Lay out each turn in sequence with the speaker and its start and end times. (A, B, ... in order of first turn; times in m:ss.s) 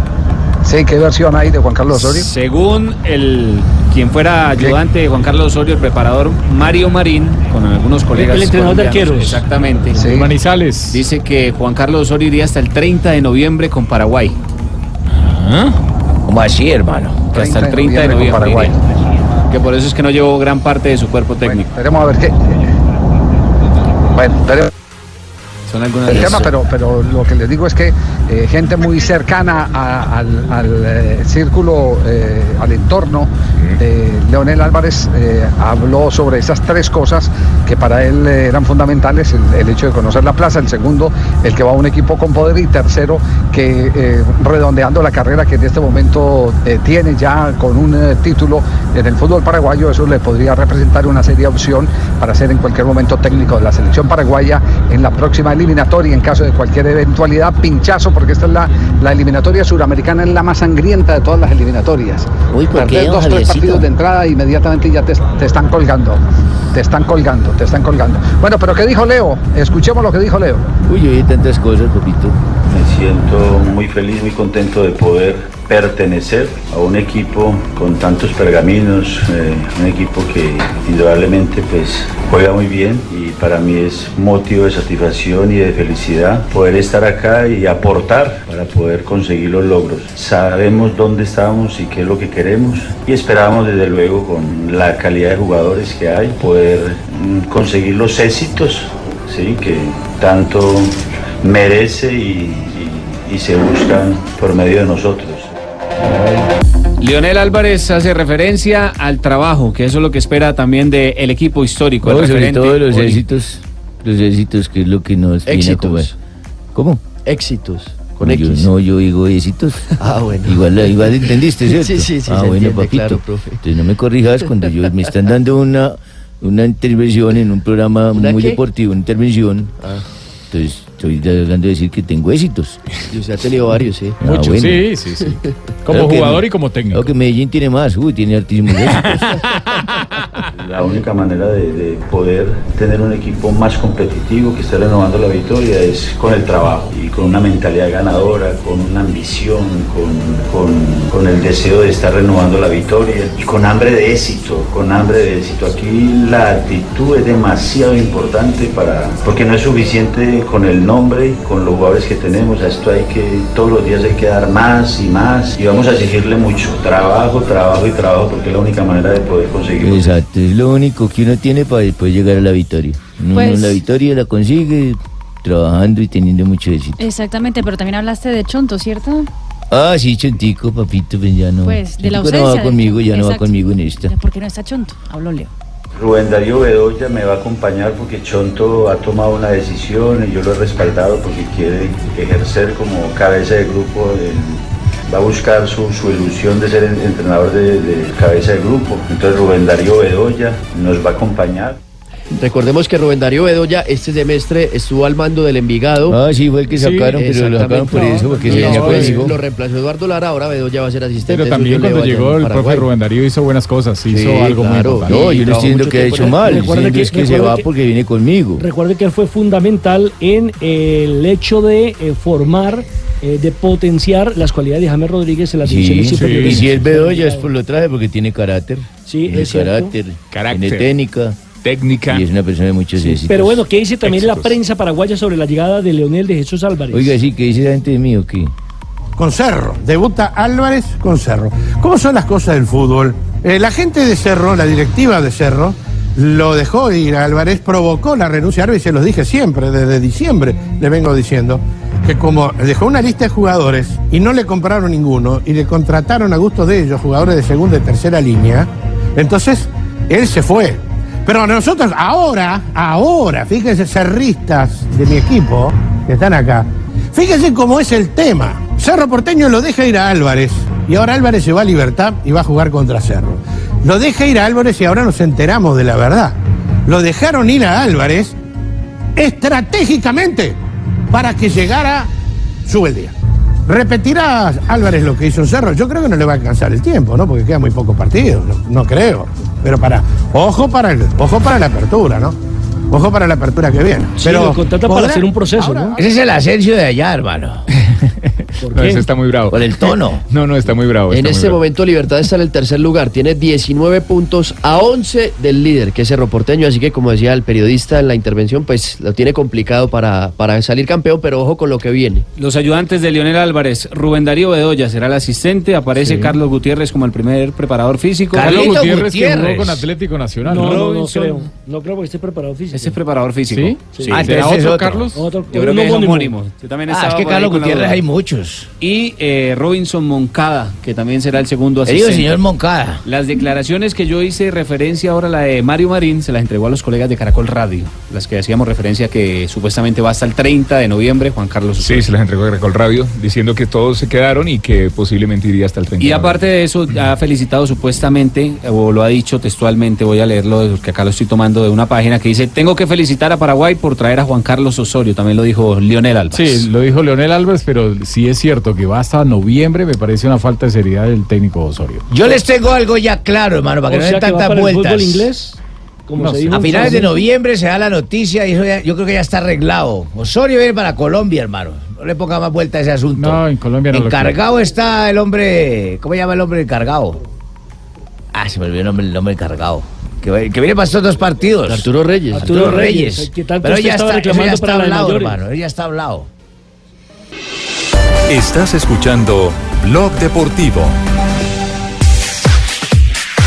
0:00.6-0:02.3 A
0:01.9-0:10.2 B
0:08.1-0:09.4 C
0:10.0-0:10.3 A
0:10.0-0:11.0 D
0:10.9-0:14.4 B
0:15.2-0:15.7 E
0:16.3-0:17.2 E
0:17.3-0:18.8 B
0:17.3-0:18.8 A
0:19.5-0:21.7 B
0:21.4-0:22.6 A
0:24.1-0:24.7 A
0:25.7-0:26.5 B
0:26.1-1:06.2 A
1:02.5-1:03.9 E
1:06.7-1:10.7 A
1:10.8-1:12.4 E
1:12.6-1:45.5 F
1:46.1-1:46.4 E
1:47.0-1:53.2 B
1:52.0-1:56.1 E
1:55.4-1:56.1 G
1:56.7-1:57.0 E
1:57.2-1:58.7 G
1:58.2-1:59.9 E
2:00.0-2:03.6 G
2:00.4-2:09.8 E
2:08.1-2:08.6 G
2:10.5-2:12.8 E
2:13.1-2:15.4 G
2:14.2-2:14.9 E
2:14.4-2:17.1 D
2:15.9-2:19.4 E
2:20.6-2:50.2 F
2:49.8-2:57.0 E
2:53.3-2:53.8 H
2:57.0-2:59.3 H
2:59.7-3:04.1 E
3:01.6-3:05.5 H
3:05.9-3:21.8 F
3:22.3-3:26.2 G
3:26.1-3:29.4 E
3:26.7-3:27.1 D
3:26.8-3:32.9 G
3:31.3-3:35.4 D
3:34.1-3:36.6 G
3:35.0-3:38.6 E
3:36.3-3:37.7 C
3:38.6-3:47.5 C
3:45.6-3:51.4 E
3:46.1-3:46.6 D
3:49.0-3:49.9 C
3:50.3-3:50.9 I
3:51.6-3:52.3 I
3:52.1-3:53.6 E
3:53.0-3:57.2 C
3:54.0-3:54.6 I
3:56.9-3:58.5 E
3:59.2-4:36.4 J
4:36.9-4:38.3 J
4:39.2-4:40.6 J
4:41.1-4:42.1 J
4:42.6-4:43.1 J
4:43.7-4:52.4 J
4:52.9-4:56.0 J
4:54.2-4:56.0 C
4:55.9-4:57.6 E
4:58.6-4:59.1 C
4:58.7-4:59.6 I
4:59.5-5:00.2 E
5:00.3-5:01.6 I
5:01.1-5:12.2 G
5:12.4-5:18.8 B
5:16.0-5:16.4 D
5:18.3-5:19.8 E
5:18.4-5:21.2 D
5:20.4-5:23.0 C
5:20.5-5:21.4 B
5:22.7-5:24.3 B
5:23.5-5:25.2 D
5:23.9-5:24.2 C
5:24.1-5:25.1 E
5:25.1-5:26.3 C
5:25.5-5:28.0 B
5:26.9-5:28.7 E
5:28.8-5:32.4 B
5:31.8-5:33.0 E
5:33.0-5:42.1 B
5:41.8-5:46.4 I
5:46.0-5:56.7 B
5:56.3-6:02.1 D
6:02.1-6:05.2 E
6:03.9-6:07.2 C
6:06.2-6:07.0 D
6:06.5-6:17.2 E
6:13.2-6:14.4 D
6:18.3-6:26.3 E
6:21.7-6:22.6 G
6:22.3-6:25.4 C
6:28.3-6:30.9 D